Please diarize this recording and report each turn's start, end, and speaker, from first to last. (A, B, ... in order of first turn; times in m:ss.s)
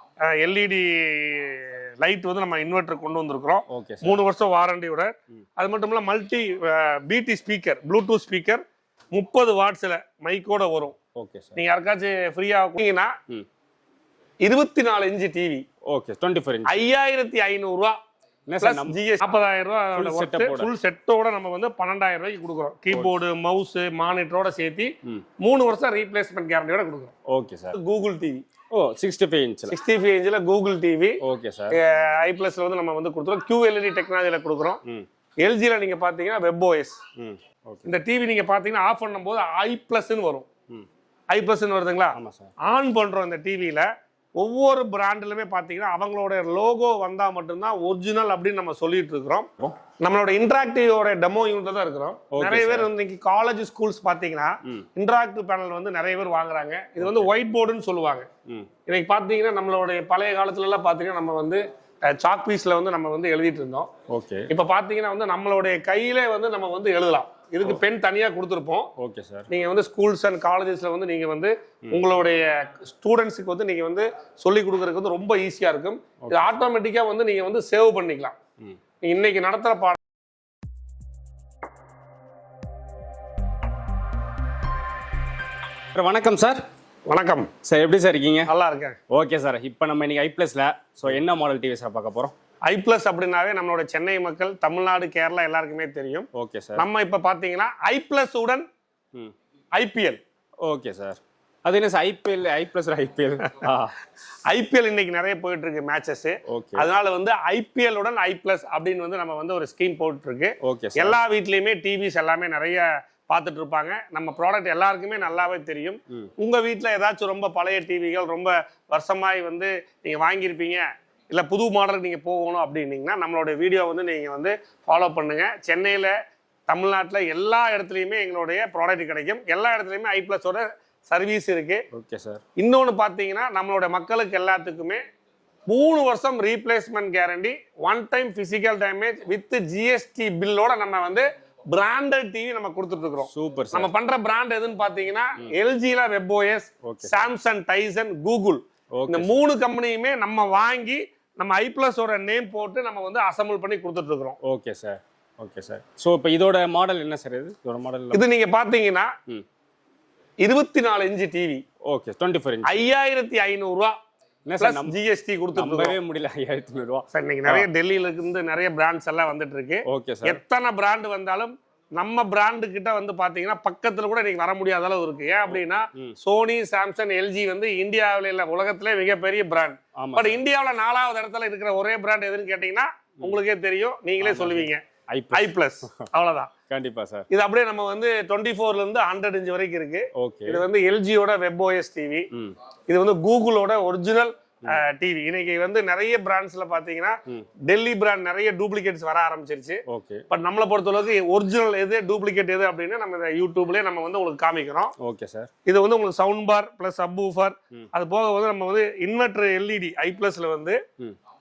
0:00.3-0:08.6 A
0:03.7-0:04.2 B
0:09.1-0:11.0 A
0:11.2-0:11.6 B
0:11.6-0:13.2 A
0:14.4-0:15.6 A
0:15.9-0:16.8 B
0:16.7-0:18.0 A
0:18.5-0:19.0 B
0:18.6-0:27.1 A
0:19.9-0:20.7 B
0:22.9-0:23.2 B
0:27.3-0:27.8 B
0:27.7-0:28.4 A
0:28.7-0:29.8 B
0:29.7-0:31.2 A
0:31.2-0:31.8 B
0:31.7-0:34.8 A
0:35.4-0:37.0 A
0:37.2-0:37.9 B
0:37.9-0:40.5 A
0:41.3-0:43.9 A
0:42.2-0:42.5 B
0:44.4-0:58.3 A
0:52.3-0:52.9 B
0:57.0-0:57.3 B
0:58.9-1:03.9 A
1:04.1-1:04.5 B
1:04.5-1:08.9 A
1:09.0-1:09.5 B
1:09.5-1:18.4 A
1:16.2-1:16.5 B
1:19.0-1:20.0 A
1:25.9-1:26.6 B
1:27.1-1:27.5 A
1:27.6-1:28.5 B
1:28.5-1:29.0 A
1:29.1-1:32.3 B
1:32.7-1:38.7 A
1:36.3-1:36.8 B
1:39.8-1:40.2 A
1:40.6-1:44.0 B
1:44.5-2:06.2 A
1:46.5-1:46.9 B
1:50.6-1:51.2 B
2:06.7-2:11.8 A
2:11.9-2:12.4 B
2:12.6-2:15.0 A
2:15.7-2:34.4 A
2:23.3-2:23.9 B
2:26.8-2:27.3 B
2:29.0-2:29.4 B
2:34.4-2:38.3 B
2:38.1-2:39.1 A
2:40.4-2:41.6 A
2:41.9-2:42.8 B
2:42.6-2:44.0 A
2:44.5-2:45.0 B
2:44.6-2:46.0 A
2:45.6-2:47.7 B
2:47.1-3:06.5 A
2:49.9-2:50.4 B
3:00.0-3:00.4 B
3:04.2-3:06.1 B
3:06.7-3:07.3 B
3:07.3-3:12.3 A
3:10.2-3:10.7 B
3:12.9-3:24.9 A
3:19.9-3:20.3 B
3:25.0-3:25.5 B
3:25.7-3:30.8 A